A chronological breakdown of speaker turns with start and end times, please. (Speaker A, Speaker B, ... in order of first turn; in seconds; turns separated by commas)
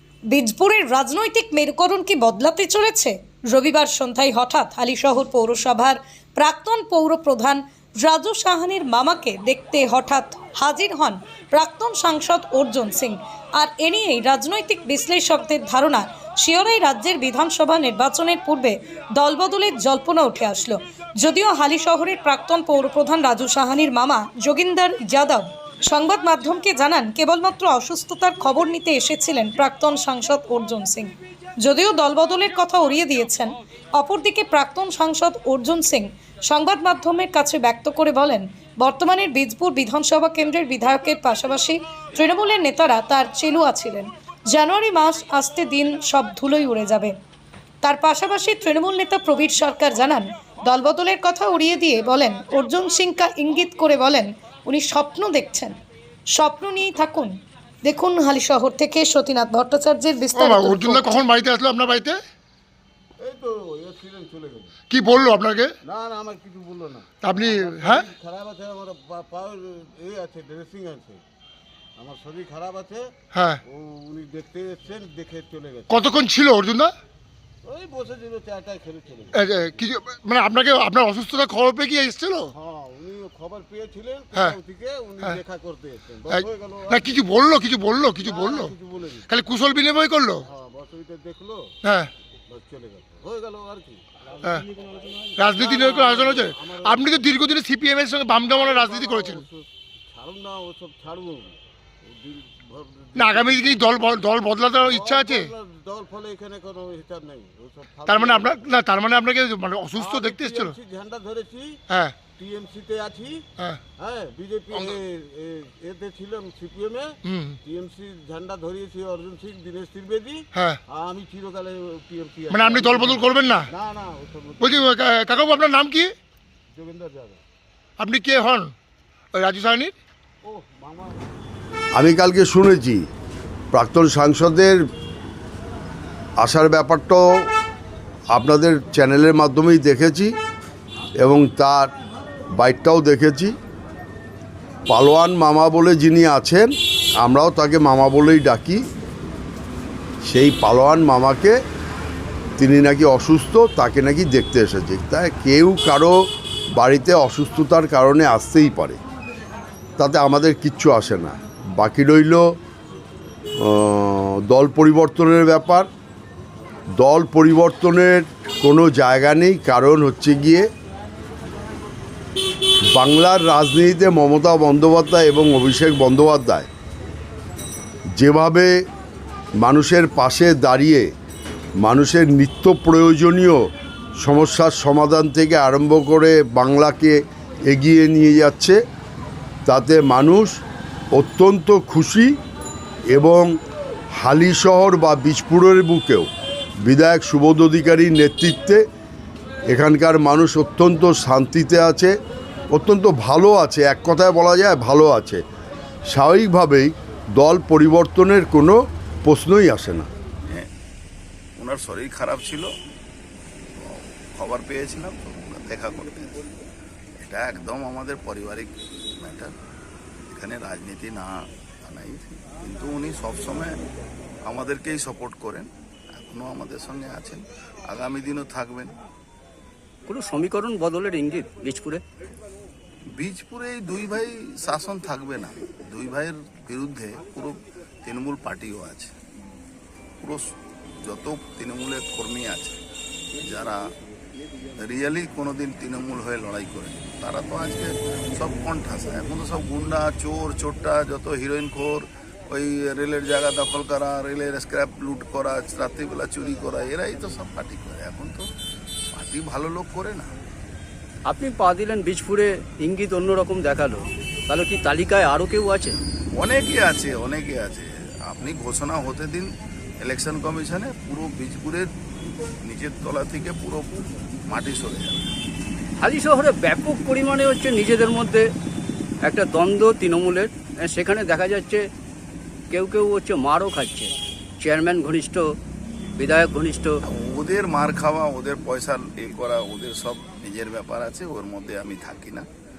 Speaker A: 0.3-47.1, Speaker A: 47.8-55.8, Speaker A: 56.3-57.3, Speaker A: 57.8-61.2, Speaker B: 60.3-62.2, Speaker C: 63.2-64.7, Speaker B: 64.9-65.7, Speaker C: 65.8-71.2, Speaker B: 67.2-68.0, Speaker C: 72.0-76.0, Speaker B: 73.3-73.6, Speaker B: 75.9-76.9, Speaker C: 77.6-79.8, Speaker B: 79.3-82.5, Speaker C: 82.5-87.2, Speaker B: 86.3-88.7, Speaker C: 88.2-89.3, Speaker B: 89.3-90.5, Speaker C: 90.4-91.7, Speaker B: 91.8-92.1, Speaker C: 92.5-97.4, Speaker B: 95.4-99.5, Speaker C: 98.5-103.8, Speaker B: 103.1-105.5, Speaker C: 104.8-108.8, Speaker B: 108.1-110.7, Speaker C: 110.0-113.4, Speaker B: 111.9-112.2, Speaker C: 114.0-124.9, Speaker B: 117.2-117.6, Speaker B: 120.5-120.8, Speaker B: 122.5-123.7, Speaker B: 124.6-126.1, Speaker C: 126.7-127.4, Speaker B: 128.0-128.7, Speaker B: 129.3-129.9, Speaker C: 130.4-131.2, Speaker D: 131.9-133.0, Speaker D: 133.7-134.8, Speaker D: 136.4-137.2, Speaker D: 138.3-140.3, Speaker D: 141.2-141.9, Speaker D: 142.6-143.5, Speaker D: 144.9-148.8, Speaker D: 150.2-151.6, Speaker D: 152.6-156.2, Speaker D: 156.8-159.0, Speaker D: 160.0-162.5, Speaker D: 163.6-165.9, Speaker D: 167.0-170.7, Speaker D: 172.9-176.7, Speaker D: 178.2-178.7, Speaker D: 179.6-181.1, Speaker D: 181.8-183.6, Speaker D: 184.2-188.8, Speaker D: 189.7-190.6, Speaker D: 191.1-192.3, Speaker D: 193.1-193.5, Speaker D: 194.2-196.3, Speaker D: 196.8-198.8, Speaker D: 199.7-202.1, Speaker D: 202.7-205.4, Speaker D: 206.1-210.1, Speaker E: 211.6-212.7, Speaker E: 213.8-216.5, Speaker E: 217.2-219.5, Speaker E: 220.2-223.8, Speaker E: 224.4-228.9, Speaker F: 230.1-232.0, Speaker E: 233.2-239.2, Speaker E: 241.0-242.8, Speaker E: 243.3-243.8, Speaker E: 244.8-258.5, Speaker E: 259.1-260.3, Speaker F: 261.2-266.0, Speaker E: 266.4-275.4, Speaker F: 276.0-278.4, Speaker F: 279.2-281.8, Speaker F: 282.7-285.5, Speaker F: 286.2-287.0, Speaker E: 287.1-292.5